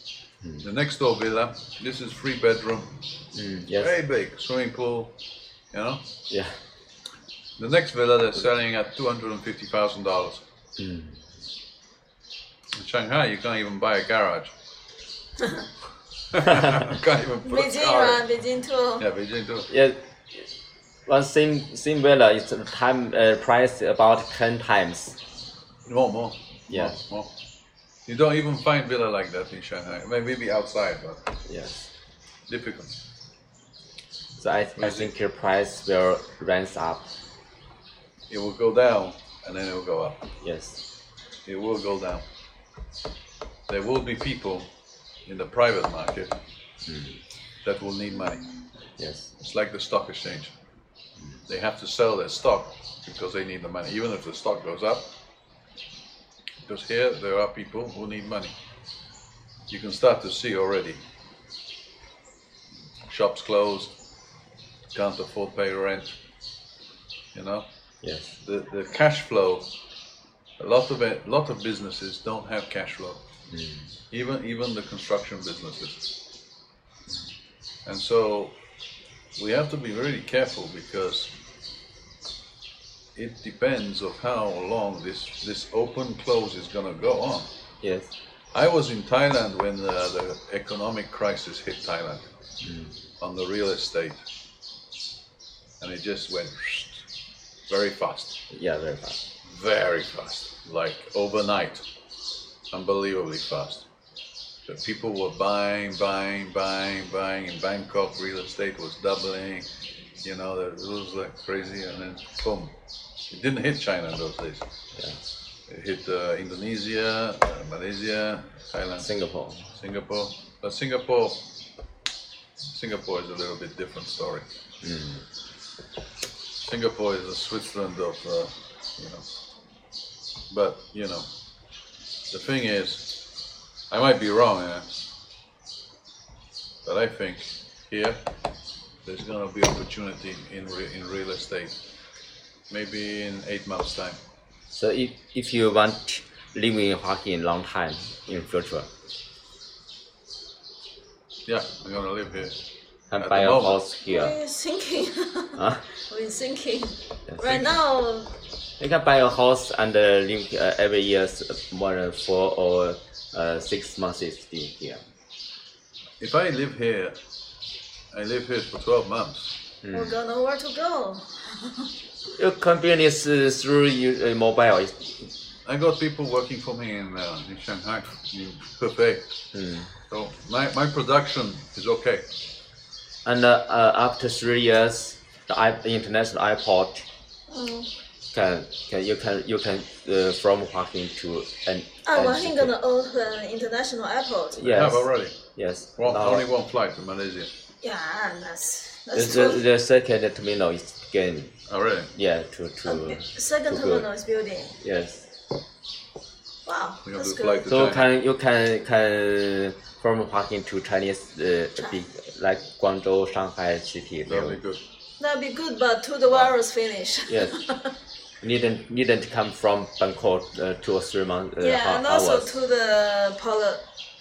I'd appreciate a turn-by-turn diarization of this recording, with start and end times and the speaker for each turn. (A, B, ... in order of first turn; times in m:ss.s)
0:00.6-0:03.0 A
0:03.3-0:04.0 B
0:03.7-0:05.2 A
0:05.7-0:06.1 A
0:06.3-0:06.6 B
0:07.6-0:10.4 A
0:10.8-0:11.2 B
0:12.7-0:14.5 A
0:16.3-0:18.2 A
0:16.4-0:16.9 B
0:17.4-0:19.1 C
0:19.0-0:19.7 A
0:19.7-0:20.5 B
0:21.0-0:25.2 B
0:25.8-0:27.3 A
0:26.7-0:27.0 B
0:28.0-0:31.3 A
0:31.5-0:31.9 B
0:32.5-0:32.9 A
0:34.4-0:37.1 B
0:34.8-0:35.1 A
0:38.3-0:40.2 A
0:40.4-0:40.8 B
0:41.4-0:42.2 A
0:43.7-0:44.7 A
0:45.2-0:46.4 A
0:46.8-0:47.2 B
0:47.6-0:48.5 A
0:49.0-0:49.3 B
0:49.4-0:50.5 A
0:51.5-0:55.1 A
0:56.6-0:58.5 A
0:59.7-1:01.0 A
1:03.1-1:04.0 A
1:04.9-1:06.2 A
1:07.3-1:07.6 A
1:08.0-1:08.4 B
1:08.4-1:09.7 A
1:10.6-1:13.2 A
1:13.5-1:13.9 B
1:14.1-1:16.2 A
1:17.8-1:18.6 A
1:19.4-1:21.3 A
1:23.1-1:27.5 A
1:27.8-1:28.1 B
1:28.5-1:32.3 A
1:32.6-1:32.9 B
1:33.2-1:34.2 A
1:35.8-1:37.0 A
1:37.7-1:38.4 A
1:38.5-1:39.2 B
1:39.4-1:41.9 A
1:42.7-1:43.9 A
1:44.6-1:49.7 A
1:50.2-1:52.7 A
1:53.3-1:54.7 A
1:54.9-1:55.2 B
1:55.7-1:59.1 A
1:59.0-1:59.7 B
1:59.7-2:01.5 A
2:02.7-2:04.5 A
2:04.8-2:05.2 B
2:06.6-2:09.2 A
2:10.5-2:11.3 A
2:12.3-2:13.2 A
2:13.9-2:15.1 A
2:16.8-2:18.2 A
2:19.0-2:21.8 A
2:22.7-2:24.2 A
2:24.7-2:28.9 B
2:31.4-2:32.6 A
2:33.1-2:34.4 B
2:33.2-2:33.8 A
2:34.0-2:38.3 C
2:35.6-2:35.8 B
2:37.3-2:37.6 B
2:38.8-2:45.0 B
2:46.2-2:47.2 A
2:48.1-2:49.6 A
2:49.8-2:50.2 B
2:49.9-2:51.9 C
2:52.4-2:55.3 B
2:55.6-2:59.4 A
2:59.5-2:59.9 B
3:00.1-3:02.3 A
3:03.2-3:07.1 B
3:07.5-3:07.9 C
3:08.3-3:12.7 B
3:12.0-3:14.7 C
3:14.5-3:16.5 B
3:14.6-3:15.4 A
3:16.0-3:17.5 A
3:17.8-3:19.6 C
3:19.1-3:21.5 B
3:21.7-3:22.1 A
3:22.1-3:24.0 B
3:22.8-3:24.8 C
3:24.8-3:25.3 B
3:26.6-3:27.7 C
3:27.0-3:28.1 A
3:27.7-3:34.6 B
3:34.2-3:34.8 A
3:35.2-3:37.9 C
3:37.3-3:37.6 B
3:38.4-3:42.5 B
3:41.6-3:43.8 C